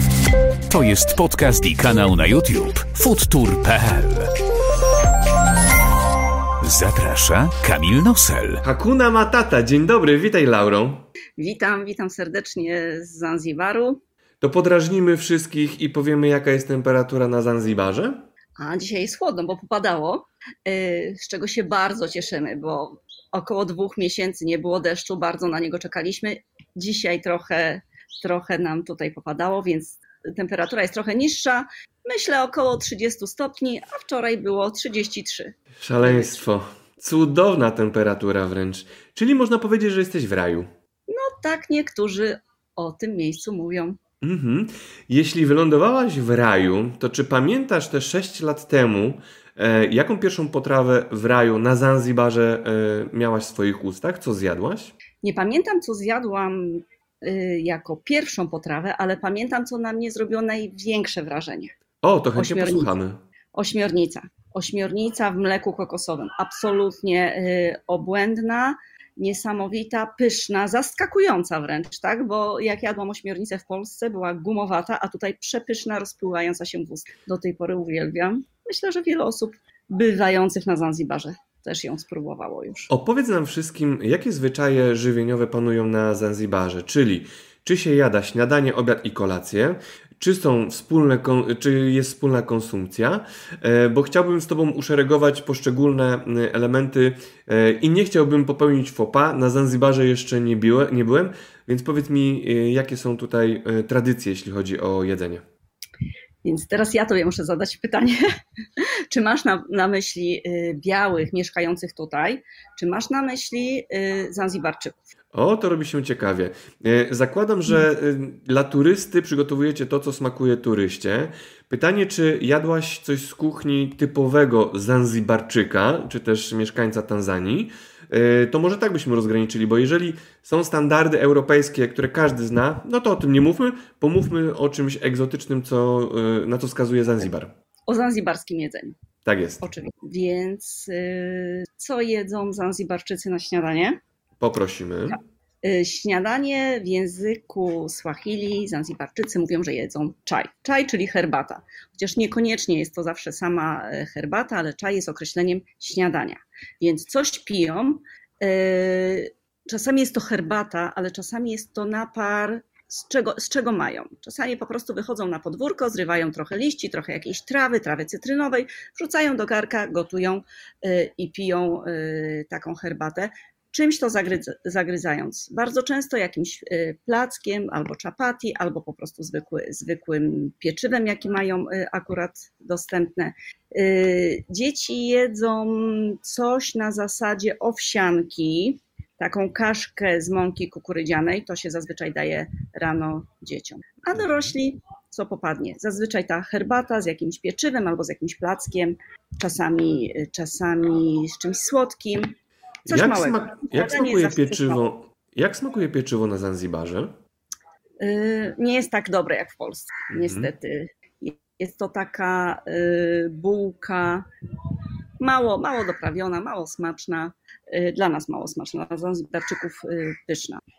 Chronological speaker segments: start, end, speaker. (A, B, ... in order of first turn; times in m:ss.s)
0:00.7-0:04.4 A
0:06.6-0:08.6 A
0:08.6-0:11.1 B
0:11.4-0:14.0 C
0:14.4-0:18.3 B
0:18.6-0:36.4 C
0:35.8-0:40.7 B
0:41.1-0:44.0 C
0:44.2-0:54.9 B
0:55.2-1:01.7 C
1:02.0-1:03.2 B
1:02.4-1:02.9 C
1:03.5-1:22.9 C
1:22.9-1:45.4 B
1:46.4-1:48.2 C
1:48.8-1:55.0 C
1:55.3-2:17.5 B
2:17.9-2:19.0 C
2:19.2-2:19.7 B
2:19.6-2:24.0 C
2:24.4-2:25.2 B
2:25.1-3:24.8 C
3:22.9-3:27.2 B
3:28.0-3:40.6 C
3:30.1-3:30.5 B